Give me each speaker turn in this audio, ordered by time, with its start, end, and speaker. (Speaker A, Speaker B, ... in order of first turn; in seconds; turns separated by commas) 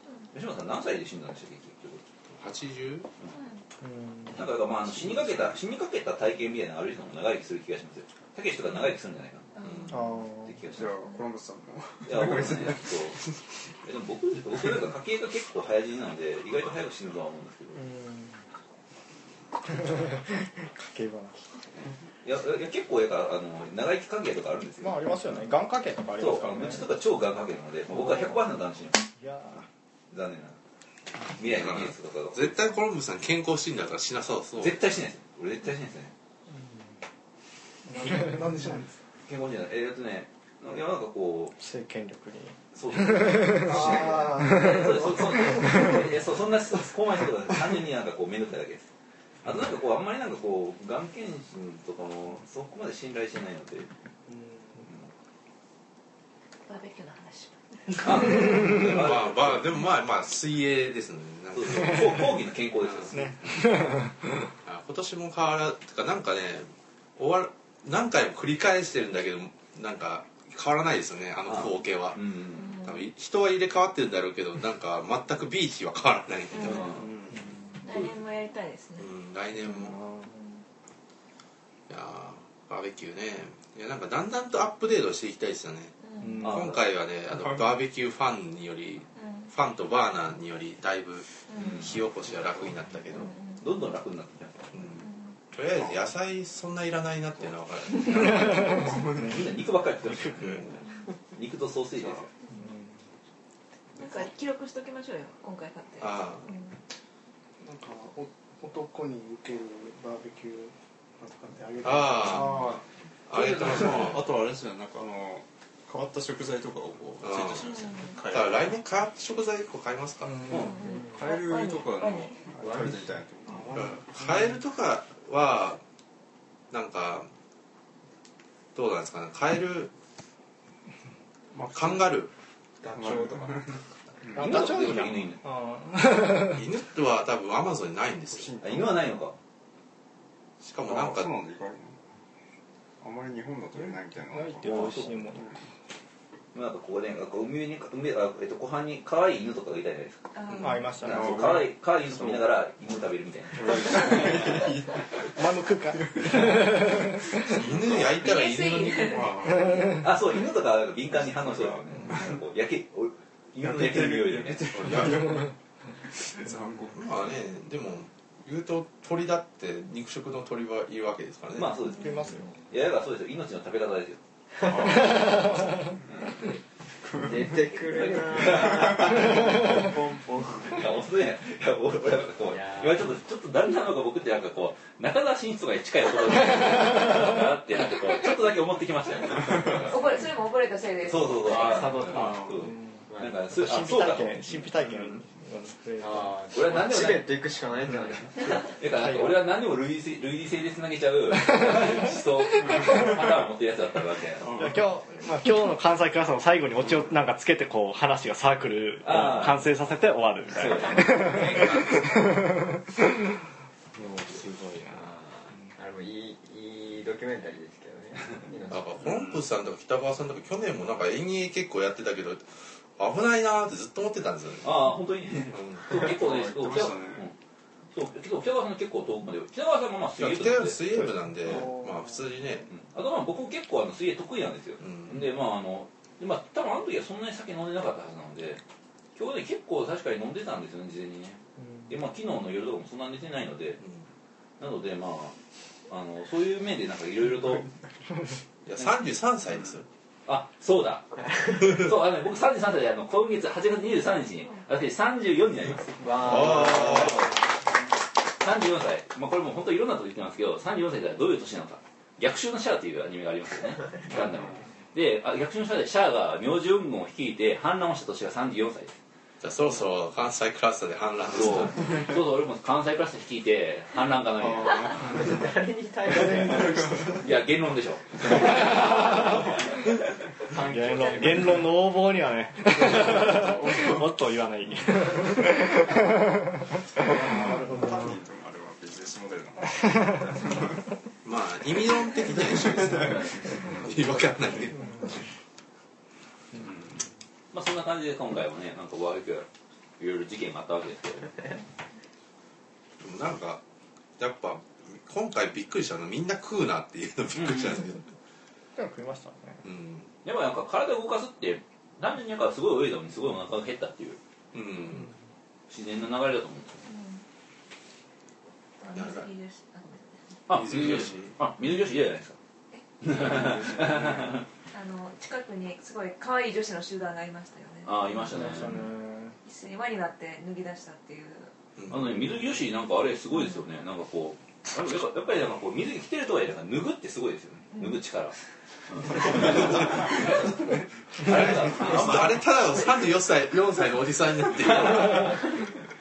Speaker A: 0.3-2.0, Speaker B: 2.3-3.1, Speaker C: 3.3-3.6, Speaker D: 3.8-4.4, Speaker A: 4.3-9.6, Speaker B: 5.0-5.5, Speaker C: 9.6-9.9, Speaker B: 9.6-10.0, Speaker D: 9.9-10.6, Speaker A: 10.4-10.9, Speaker E: 10.6-13.5, Speaker A: 12.0-13.2, Speaker A: 13.8-17.9, Speaker D: 17.7-18.4, Speaker D: 19.7-21.4, Speaker A: 22.2-25.1, Speaker D: 24.8-26.9, Speaker A: 26.2-29.0, Speaker D: 29.2-29.7, Speaker A: 30.1-30.6, Speaker A: 31.4-32.6, Speaker B: 31.4-34.8, Speaker A: 34.6-36.1, Speaker F: 37.9-39.0, Speaker A: 39.2-41.6, Speaker D: 41.6-46.1, Speaker A: 42.7-48.9, Speaker F: 43.7-45.5, Speaker A: 49.4-53.9, Speaker F: 54.3-54.7, Speaker C: 56.6-58.5, Speaker A: 58.0-59.7, Speaker B: 58.6-62.3, Speaker A: 61.5-63.8, Speaker B: 62.8-63.1, Speaker D: 63.1-64.5, Speaker B: 64.6-77.1, Speaker A: 71.5-72.7, Speaker C: 72.5-73.1, Speaker C: 76.5-76.9, Speaker A: 76.6-77.0, Speaker E: 76.9-77.5, Speaker D: 77.3-77.8, Speaker C: 77.8-79.1, Speaker B: 79.0-80.0, Speaker D: 79.7-80.3, Speaker C: 80.2-80.6, Speaker B: 81.9-93.3, Speaker C: 86.0-86.3, Speaker D: 86.2-86.6, Speaker A: 86.4-86.8, Speaker E: 87.3-87.7, Speaker C: 89.2-89.5, Speaker C: 91.5-91.8, Speaker A: 91.6-91.9, Speaker E: 92.3-92.7, Speaker C: 93.1-93.6, Speaker A: 93.6-94.8, Speaker B: 94.7-98.8, Speaker C: 95.0-95.3, Speaker E: 95.7-96.1, Speaker A: 98.1-100.8, Speaker E: 98.2-99.6, Speaker B: 100.4-100.8, Speaker A: 101.3-102.3, Speaker D: 102.5-102.9, Speaker C: 104.0-106.8, Speaker B: 106.0-106.5, Speaker F: 107.6-110.7, Speaker E: 111.2-111.5, Speaker F: 111.4-112.5, Speaker B: 111.8-112.6, Speaker E: 112.3-112.8, Speaker B: 113.3-114.3, Speaker E: 113.3-118.8, Speaker B: 117.2-120.5, Speaker C: 117.6-118.2, Speaker D: 120.5-120.7, Speaker C: 120.5-122.4, Speaker E: 120.5-124.0, Speaker G: 122.6-123.0, Speaker F: 123.5-124.6, Speaker B: 123.7-125.8, Speaker B: 126.7-127.3, Speaker B: 128.7-129.9, Speaker E: 131.5-132.2, Speaker B: 131.7-132.3, Speaker G: 132.8-133.7, Speaker E: 132.9-134.8, Speaker D: 134.3-136.7, Speaker A: 134.3-135.4, Speaker B: 136.4-138.5, Speaker E: 138.3-139.2, Speaker A: 138.6-139.4, Speaker B: 140.6-141.3, Speaker E: 140.8-142.0, Speaker E: 143.0-145.6, Speaker D: 144.3-145.5, Speaker A: 144.6-145.2, Speaker A: 146.5-150.2, Speaker C: 150.3-150.9, Speaker D: 150.6-151.4, Speaker E: 150.9-152.6, Speaker A: 151.0-154.6, Speaker E: 153.5-158.2, Speaker D: 155.3-157.5, Speaker B: 157.5-159.2, Speaker C: 158.1-159.4, Speaker E: 159.0-160.1, Speaker A: 160.0-164.8, Speaker E: 161.1-162.4, Speaker E: 163.6-165.6, Speaker B: 164.8-165.1, Speaker E: 166.2-167.4, Speaker B: 166.9-171.8, Speaker A: 171.5-172.1, Speaker C: 171.9-172.2, Speaker D: 171.9-172.5, Speaker A: 172.7-174.2, Speaker E: 174.6-176.0, Speaker A: 175.4-176.2, Speaker E: 177.1-177.5, Speaker G: 177.2-180.9, Speaker A: 177.9-179.6, Speaker E: 178.2-179.2, Speaker A: 180.7-190.0, Speaker G: 182.4-183.1, Speaker E: 189.5-189.9, Speaker C: 189.7-192.1, Speaker A: 191.0-194.6, Speaker G: 191.4-192.4, Speaker E: 192.0-192.7, Speaker D: 192.7-196.3, Speaker G: 193.1-193.4, Speaker E: 194.8-195.2, Speaker G: 196.0-198.7, Speaker A: 196.5-197.3, Speaker A: 198.4-204.5, Speaker D: 198.9-199.4, Speaker E: 202.6-203.1, Speaker E: 204.4-204.9, Speaker D: 204.5-213.1, Speaker A: 209.0-209.7, Speaker A: 210.5-212.1, Speaker D: 213.9-215.1, Speaker G: 214.9-218.9, Speaker B: 218.7-224.8, Speaker E: 219.1-219.4, Speaker A: 224.6-227.3, Speaker B: 225.5-226.0, Speaker E: 225.9-227.3, Speaker A: 227.9-230.8, Speaker B: 230.2-232.7, Speaker F: 231.7-232.2, Speaker A: 232.7-238.6, Speaker B: 234.8-235.3, Speaker A: 239.1-243.8, Speaker B: 243.8-244.1, Speaker A: 244.6-245.4, Speaker A: 245.9-247.7, Speaker B: 248.7-249.8, Speaker A: 250.2-257.3, Speaker G: 251.3-251.7, Speaker G: 256.0-257.4, Speaker B: 256.2-257.2, Speaker A: 258.4-269.0, Speaker B: 269.4-271.9, Speaker A: 271.3-275.1, Speaker E: 274.4-275.4, Speaker G: 275.0-277.2, Speaker E: 276.1-277.3, Speaker A: 276.2-276.6, Speaker A: 277.2-279.4, Speaker E: 278.6-279.4, Speaker D: 278.6-279.2, Speaker G: 280.4-281.6, Speaker E: 280.6-281.6, Speaker D: 280.7-287.9, Speaker E: 282.6-284.2, Speaker E: 286.9-290.8, Speaker B: 291.2-295.1, Speaker E: 292.3-293.9, Speaker A: 293.0-293.6, Speaker E: 296.6-296.9, Speaker A: 297.5-299.5, Speaker A: 300.0-301.5, Speaker B: 303.0-303.6, Speaker B: 304.2-308.1, Speaker A: 307.3-307.8, Speaker D: 308.8-309.6, Speaker B: 309.6-310.1, Speaker A: 310.2-314.2, Speaker B: 314.5-315.1, Speaker A: 315.7-316.9, Speaker C: 316.8-317.2, Speaker C: 318.8-320.4, Speaker B: 318.9-319.3, Speaker A: 320.5-322.4, Speaker B: 320.5-321.4, Speaker A: 323.0-324.4, Speaker C: 324.7-327.9, Speaker A: 327.8-328.9, Speaker D: 328.3-329.4, Speaker C: 329.4-331.5, Speaker B: 331.8-332.1, Speaker A: 331.9-338.4, Speaker A: 338.9-342.5, Speaker B: 341.2-345.4, Speaker A: 344.7-345.5